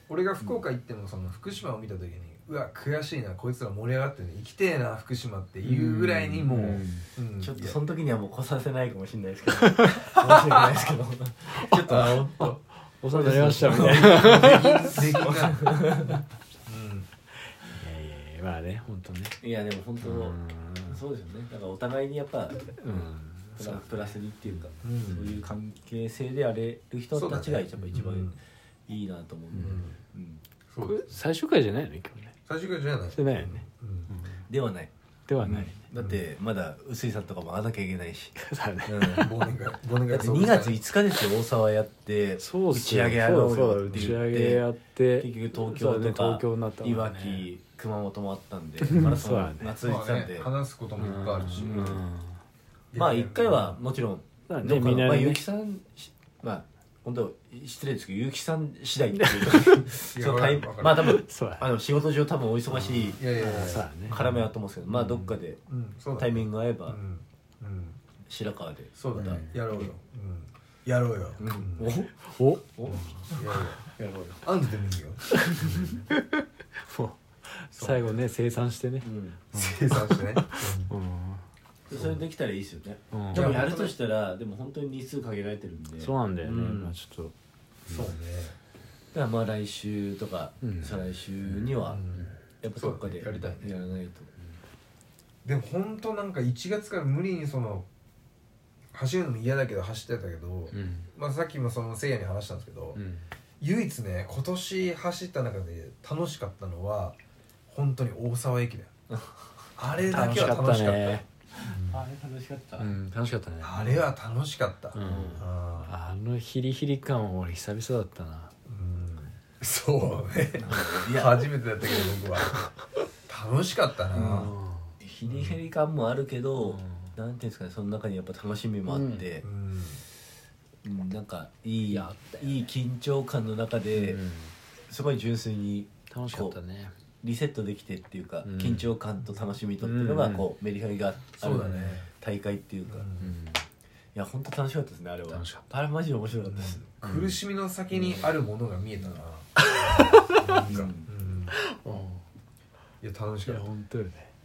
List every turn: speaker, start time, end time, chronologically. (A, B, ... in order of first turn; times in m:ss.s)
0:00.1-0:07.8 A
0:05.6-0:07.0 B
0:07.4-0:12.6 C
0:09.6-0:10.1 B
0:11.6-0:15.4 B
0:11.9-0:12.6 A
0:13.1-0:16.2 C
0:13.1-0:17.1 A
0:17.7-0:19.4 B
0:19.4-0:30.4 C
0:20.0-0:21.0 B
0:22.6-0:24.6 B
0:24.8-0:25.3 A
0:27.1-0:28.3 A
0:27.8-0:28.1 B
0:29.6-0:30.0 A
0:30.7-0:31.2 A
0:30.8-0:32.3 B
0:32.5-0:34.1 A
0:33.1-0:34.5 B
0:34.5-0:34.9 C
0:35.3-0:35.8 B
0:35.4-0:39.3 C
0:38.4-0:39.4 B
0:39.2-0:40.8 A
0:40.1-0:50.5 C
0:42.4-0:47.5 B
0:43.9-0:44.2 A
0:48.8-0:49.8 B
0:49.7-0:52.0 A
0:51.0-0:52.4 B
0:51.6-0:52.0 C
0:52.9-0:53.8 A
0:53.0-1:05.6 C
0:54.5-0:55.4 B
0:59.2-0:59.9 B
1:00.1-1:01.2 A
1:00.9-1:01.7 B
1:02.7-1:04.3 B
1:03.2-1:04.4 A
1:04.9-1:05.3 B
1:05.7-1:08.0 A
1:06.2-1:07.0 C
1:08.3-1:09.9 C
1:09.0-1:12.0 A
1:09.2-1:09.6 B
1:11.4-1:12.1 C
1:12.2-1:13.3 B
1:12.8-1:14.4 C
1:13.3-1:13.8 A
1:14.4-1:15.8 A
1:15.4-1:21.4 B
1:15.5-1:16.0 C
1:17.8-1:18.1 A
1:19.0-1:19.4 C
1:19.5-1:20.9 A
1:21.9-1:26.9 C
1:21.9-1:22.2 A
1:23.1-1:23.6 B
1:23.3-1:23.9 A
1:26.0-1:27.3 B
1:27.9-1:28.1 B
1:27.9-1:28.6 A
1:29.1-1:32.0 C
1:30.6-1:31.0 B
1:31.8-1:33.8 A
1:32.6-1:34.3 C
1:35.4-1:37.9 A
1:38.9-1:43.0 A
1:40.7-1:41.1 B
1:42.9-1:43.3 B
1:43.6-1:47.2 A
1:47.7-1:48.9 A
1:49.8-1:52.0 A
1:50.0-1:50.5 C
1:50.1-1:51.2 B
1:51.6-1:52.9 C
1:52.8-1:54.0 B
1:53.6-1:55.9 A
1:54.9-1:58.5 B
1:55.0-1:55.4 C
1:58.7-2:02.7 A
2:00.6-2:01.4 C
2:03.3-2:04.5 A
2:04.1-2:04.9 B
2:05.0-2:09.4 C
2:05.2-2:05.6 A
2:06.6-2:07.1 B
2:08.9-2:09.3 B
2:09.4-2:10.0 A
2:10.8-2:14.2 C
2:11.9-2:12.4 B
2:13.9-2:14.5 B
2:14.9-2:16.6 C
2:16.1-2:16.9 B
2:17.2-2:23.1 C
2:18.4-2:18.9 B
2:19.8-2:20.5 B
2:21.4-2:22.1 A
2:22.9-2:23.3 A
2:23.2-2:23.6 B
2:24.1-2:26.8 C
2:25.3-2:25.6 B
2:27.0-2:31.6 A
2:27.0-2:27.3 B
2:27.9-2:28.3 C
2:29.6-2:30.8 B
2:30.5-2:31.1 C
2:31.5-2:32.2 B
2:33.0-2:33.6 A
2:33.4-2:34.3 B